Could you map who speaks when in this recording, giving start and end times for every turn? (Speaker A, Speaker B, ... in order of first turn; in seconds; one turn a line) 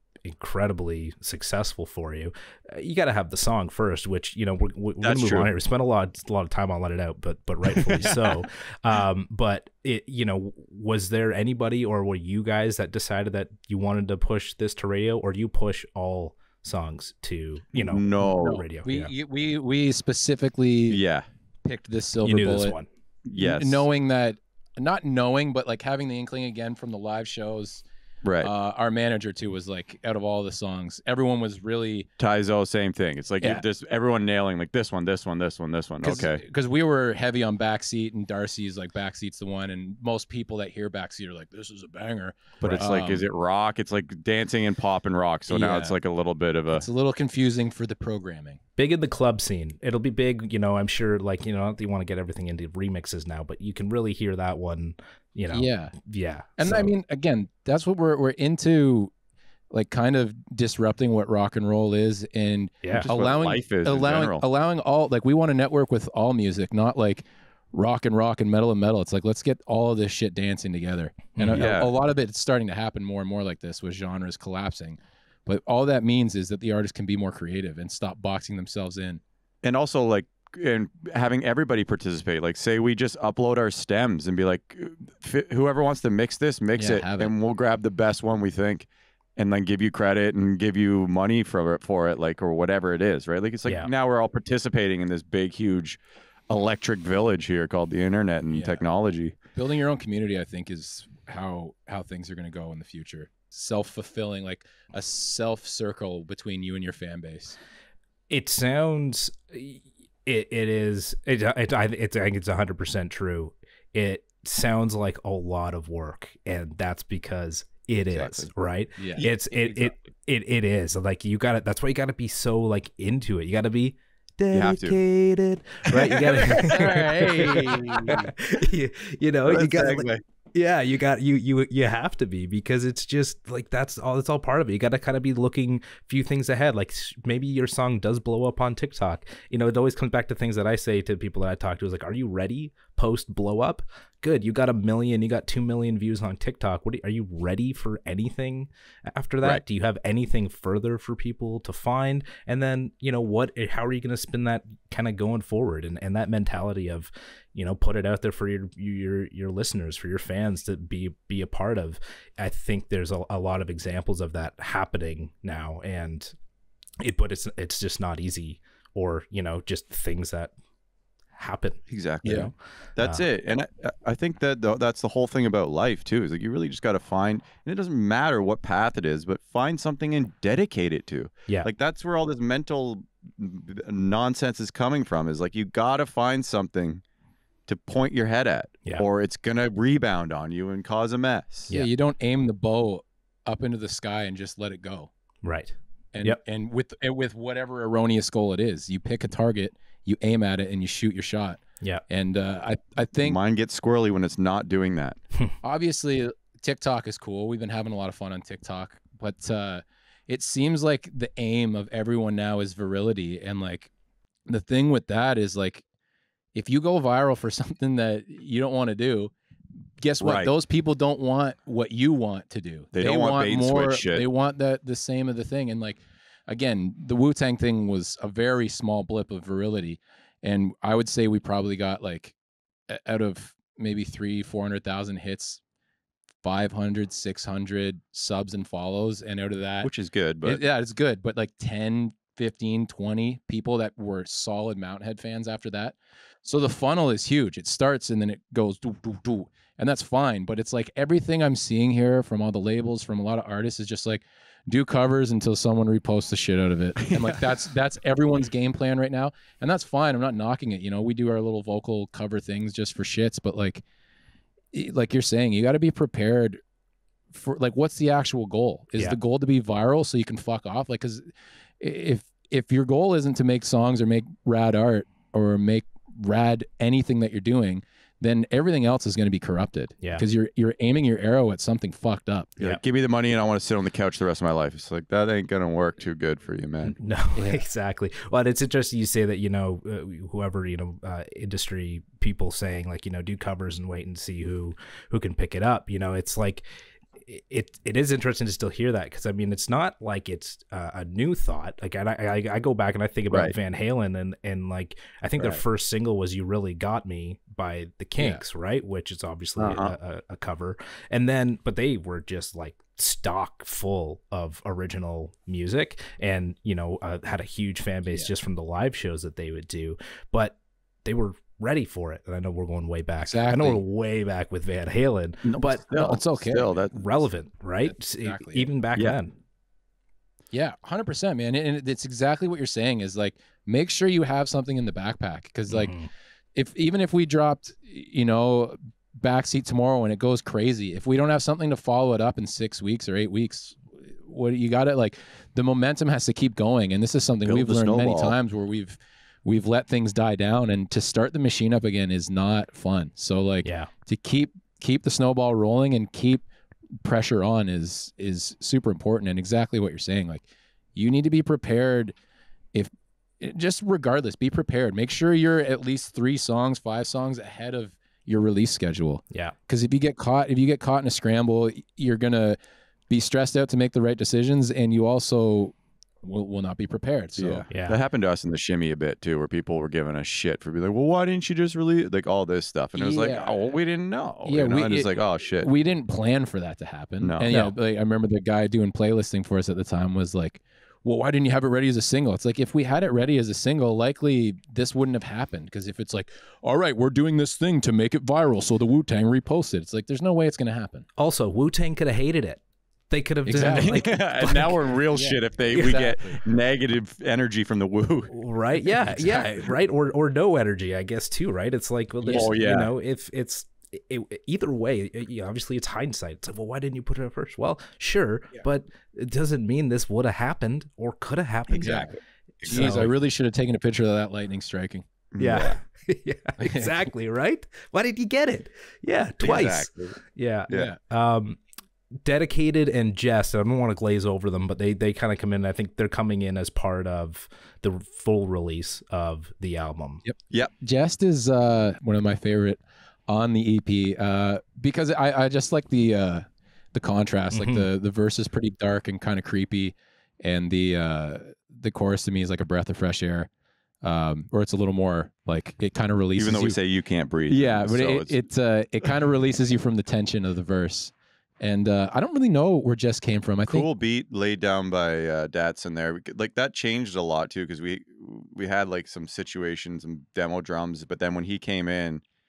Speaker A: 0.2-19.1
Speaker B: 5.0-5.5
Speaker B: 17.8-18.6
Speaker C: 18.2-21.0
Speaker B: 20.9-21.2
Speaker C: 21.6-22.7
Speaker A: 22.2-22.9
Speaker B: 23.2-23.8
Speaker C: 23.4-27.8
Speaker B: 28.2-28.5
Speaker C: 28.4-32.1
Speaker B: 32.2-36.4
Speaker C: 36.0-43.2
Speaker B: 42.6-46.9
Speaker C: 45.5-45.9
Speaker C: 46.7-48.6
Speaker A: 48.8-56.9
Speaker C: 55.5-56.0
Speaker C: 56.6-59.1
Speaker C: 59.7-79.2
Speaker B: 62.9-64.4
Speaker A: 71.4-71.7
Speaker B: 71.5-71.9
Speaker B: 79.6-99.3
Speaker C: 86.8-87.3
Speaker C: 98.5-98.8
Speaker C: 99.5-107.6
Speaker A: 108.3-166.3
Speaker B: 118.1-118.5
Speaker C: 119.0-119.9
Speaker B: 124.5-125.0
Speaker B: 126.0-126.8
Speaker C: 126.4-128.3
Speaker B: 127.5-128.2
Speaker B: 129.5-130.2
Speaker A: 167.0-170.5
Speaker A: 171.3-173.2
Speaker B: 171.9-187.0
Speaker B: 187.7-191.7
Speaker C: 191.7-195.1
Speaker A: 195.4-196.4
Speaker C: 196.1-203.4
Speaker B: 203.2-205.2
Speaker C: 205.6-213.9
Speaker C: 214.5-215.8
Speaker C: 216.5-219.3
Speaker C: 220.0-232.3
Speaker B: 220.2-220.5
Speaker B: 222.9-224.2
Speaker C: 232.9-235.6
Speaker C: 236.4-239.9
Speaker B: 239.8-240.6
Speaker C: 240.4-263.8
Speaker B: 257.0-257.3
Speaker C: 264.7-266.6
Speaker C: 267.3-271.3
Speaker C: 271.8-282.5
Speaker B: 282.6-287.0
Speaker A: 286.8-296.6
Speaker A: 297.2-325.9
Speaker B: 309.6-309.9
Speaker C: 323.2-323.8
Speaker B: 325.4-327.1
Speaker C: 325.9-326.7
Speaker A: 326.9-329.4
Speaker C: 328.0-328.7
Speaker C: 330.5-336.0
Speaker A: 335.7-336.1
Speaker C: 336.5-356.4
Speaker B: 347.4-348.4
Speaker A: 353.6-353.9
Speaker C: 357.0-360.4
Speaker C: 360.9-362.1
Speaker C: 363.4-372.6
Speaker C: 373.1-377.6
Speaker B: 377.4-385.7
Speaker A: 377.7-378.0
Speaker C: 382.9-383.7
Speaker C: 384.4-401.1
Speaker B: 387.2-387.5
Speaker A: 387.5-387.7
Speaker A: 401.2-404.7
Speaker C: 403.4-404.2
Speaker B: 403.6-408.3
Speaker C: 405.1-406.4
Speaker A: 408.3-423.1
Speaker B: 409.1-409.4
Speaker C: 412.2-412.5
Speaker B: 412.3-412.9
Speaker B: 421.7-423.1
Speaker C: 421.8-422.1
Speaker C: 422.6-425.1
Speaker B: 425.3-425.8
Speaker A: 425.4-431.6
Speaker C: 426.6-426.9
Speaker B: 429.4-430.2
Speaker C: 430.7-431.0
Speaker A: 432.2-440.2
Speaker C: 440.2-453.5
Speaker A: 447.5-447.9
Speaker C: 454.0-456.8
Speaker B: 456.4-458.3
Speaker C: 457.5-463.9
Speaker B: 463.6-472.2